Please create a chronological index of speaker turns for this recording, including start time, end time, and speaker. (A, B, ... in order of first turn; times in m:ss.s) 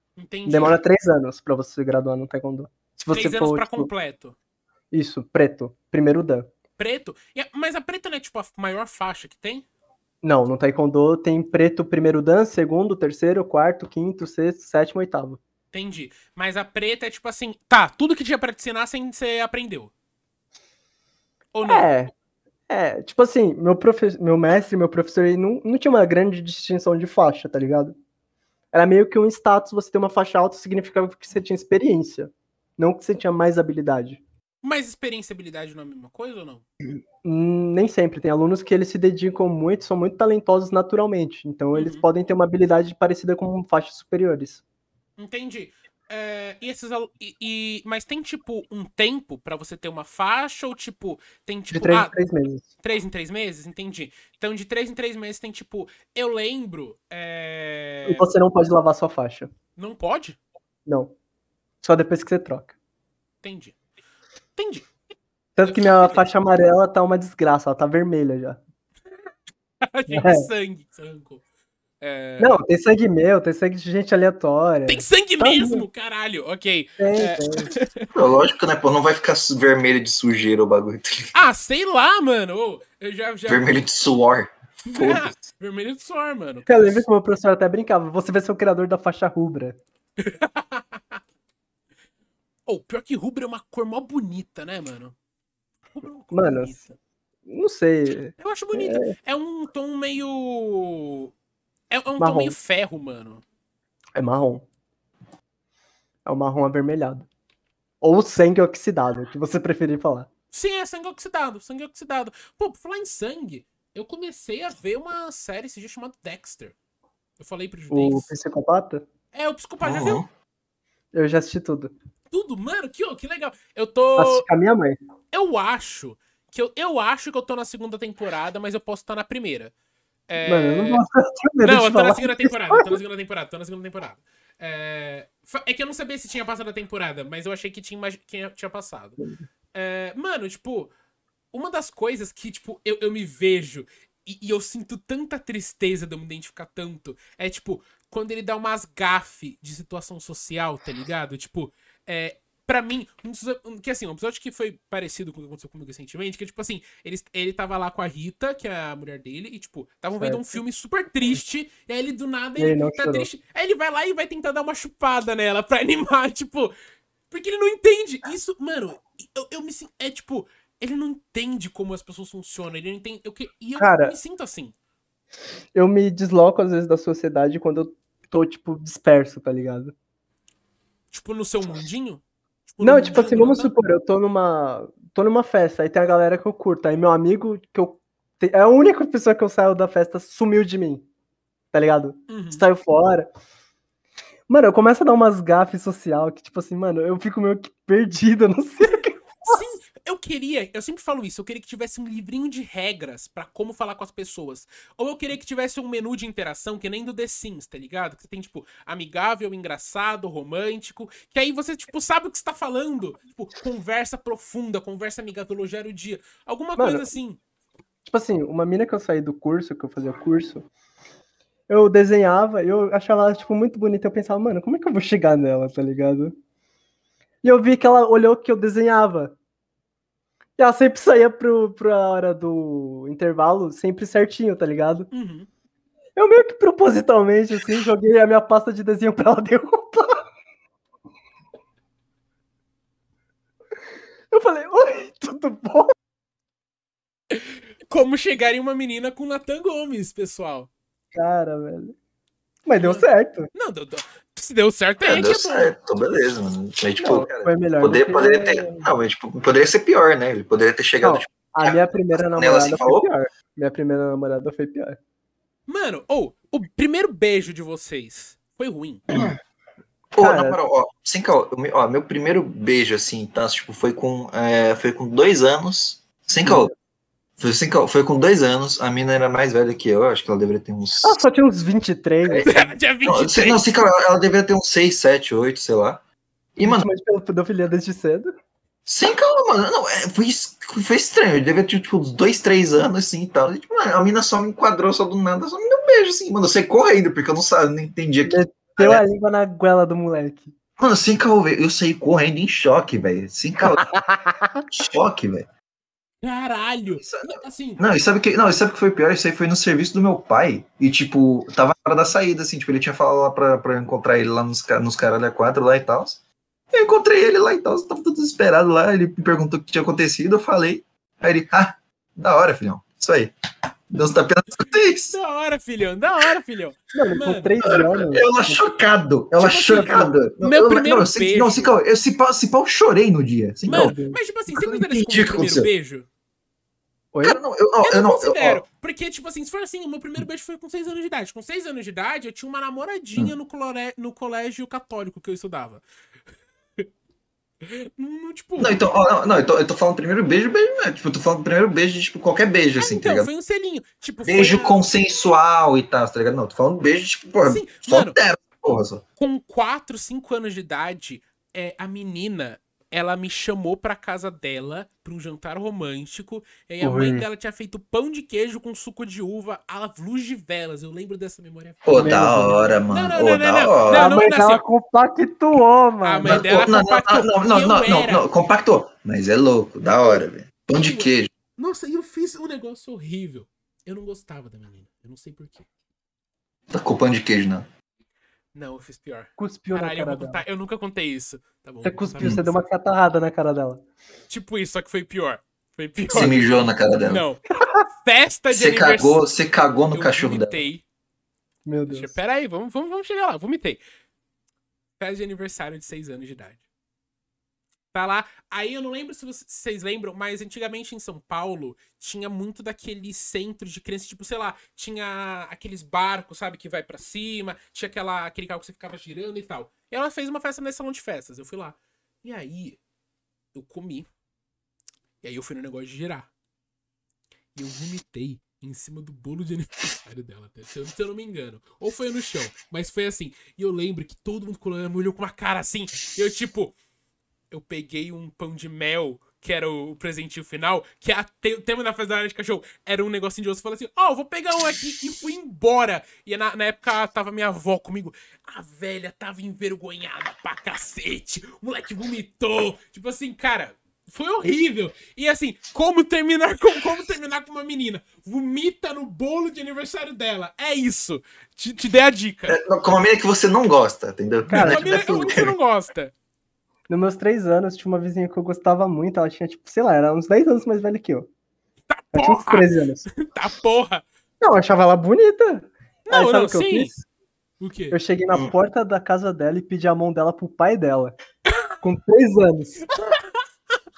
0:00.2-0:00.8 A
0:00.5-0:03.9 B
0:03.1-0:04.4 A
0:04.9-0:06.5 B
0:06.8-0:09.7 A
0:10.2-0:15.4 B
0:15.7-0:19.9 A
0:21.5-0:21.9 A
0:21.7-0:22.1 B
0:22.7-0:28.0 B
0:28.7-0:34.2 B
0:34.6-0:36.6 A
0:37.2-0:44.6 B
0:41.7-0:42.1 A
0:45.2-0:52.1 A
0:51.7-0:52.7 B
0:52.8-0:58.3 A
0:58.0-0:59.5 B
0:59.8-1:00.4 A
1:00.9-1:01.1 B
1:01.8-1:02.7 B
1:03.4-1:03.8 A
1:04.6-1:04.9 A
1:05.6-1:08.6 B
1:05.6-1:06.3 A
1:09.8-1:11.4 A
1:10.1-1:10.5 B
1:12.0-1:12.6 A
1:12.4-1:15.9 B
1:14.9-1:18.1 A
1:17.0-1:17.7 B
1:18.1-1:21.3 C
1:21.3-1:23.8 A
1:23.5-1:25.4 C
1:24.9-1:27.1 A
1:26.7-1:29.8 B
1:30.2-1:31.2 A
1:32.7-1:35.2 A
1:35.9-1:37.0 A
1:36.3-1:36.8 B
1:37.5-1:39.1 B
1:38.4-1:41.3 A
1:41.9-1:43.4 A
1:42.2-1:42.6 B
1:44.2-1:44.6 B
1:46.3-1:47.3 B
1:48.0-1:50.3 B
1:50.5-1:56.8 A
1:57.4-1:58.3 A
1:57.9-1:59.0 B
1:59.3-2:00.2 A
1:59.8-2:00.3 C
2:01.1-2:01.9 B
2:02.3-2:04.5 A
2:04.2-2:05.0 B
2:05.3-2:09.7 A
2:10.3-2:11.0 A
2:10.4-2:13.0 B
2:11.6-2:19.2 A
2:19.7-2:20.9 A
2:21.5-2:46.7 A
2:40.2-2:40.6 B
2:42.6-2:43.3 B
2:47.3-2:54.7 A
2:53.8-2:54.2 B
2:55.7-2:59.9 B
3:01.1-3:03.7 A
3:02.8-3:11.1 B
3:11.7-3:13.3 B
3:12.3-3:12.7 A
3:14.5-3:19.6 B
3:18.9-3:37.4 A
3:36.8-3:37.1 B
3:38.0-3:40.7 B
3:41.7-3:46.4 B
3:47.4-3:49.4 B
3:50.6-3:55.1 B
3:55.1-3:55.5 A
3:56.2-4:00.2 B
4:04.3-4:05.9 B
4:07.3-4:10.7 A
4:11.1-4:12.0 B
4:12.7-4:13.5 B
4:12.8-4:15.8 A
4:15.0-4:23.1 C
4:17.0-4:18.9 B
4:21.0-4:25.0 B
4:25.7-4:29.1 A
4:30.1-4:36.7 C
4:30.2-4:30.6 B
4:36.4-4:36.7 B
4:37.4-4:41.2 C
4:41.0-4:42.6 B
4:42.2-4:46.0 C
4:42.4-4:43.7 A
4:46.6-4:46.9 C
4:46.6-4:48.3 B
4:48.9-4:59.0 C
4:58.2-5:00.5 B
5:00.8-5:04.0 C
5:03.7-5:04.6 B
5:04.7-5:05.5 C
5:06.2-5:07.8 A
5:07.0-5:16.2 C
5:16.7-5:23.3 C
5:23.9-5:25.2 C
5:25.1-5:27.6 A
5:26.9-5:28.6 B
5:27.6-5:34.0 C
5:29.4-5:31.7 A
5:33.7-5:34.2 B
5:33.7-5:36.1 A
5:34.5-5:35.7 C
5:37.1-5:37.4 B
5:37.2-5:38.6 C
5:37.8-5:45.8 A
5:47.6-5:48.8 A
5:48.6-5:53.3 C
5:52.8-5:54.8 A
5:54.2-5:59.0 C
5:57.4-5:58.2 A
5:59.2-6:12.0 A
6:06.8-6:07.3 B
6:11.8-6:14.2 C
6:11.9-6:12.8 B
6:12.9-6:14.6 A
6:13.9-6:16.5 B
6:16.0-6:18.3 A
6:16.3-6:21.3 C
6:20.7-6:25.7 A
6:26.7-6:27.7 C
6:28.5-6:32.6 A
6:29.4-6:30.4 B
6:31.8-6:33.8 B
6:34.3-6:39.2 A
6:36.1-6:37.2 C
6:38.5-6:40.7 C
6:39.9-6:40.8 A
6:41.7-6:42.1 B
6:41.9-6:43.8 A
6:45.0-6:46.6 A
6:47.9-7:02.8 A
7:03.5-7:04.1 A
7:05.2-7:06.3 A
7:07.6-7:16.8 A
7:17.5-7:42.6 A
7:42.5-7:45.5 C
7:44.5-7:45.4 B
7:44.5-7:46.1 A
7:46.9-7:51.3 B
7:51.9-7:54.0 A
7:52.1-7:53.0 B
7:54.4-7:57.0 B
7:56.1-7:56.9 A
7:57.6-7:58.0 A
7:57.9-8:01.2 B
8:01.5-8:01.8 A
8:01.8-8:02.8 B
8:03.0-8:03.4 A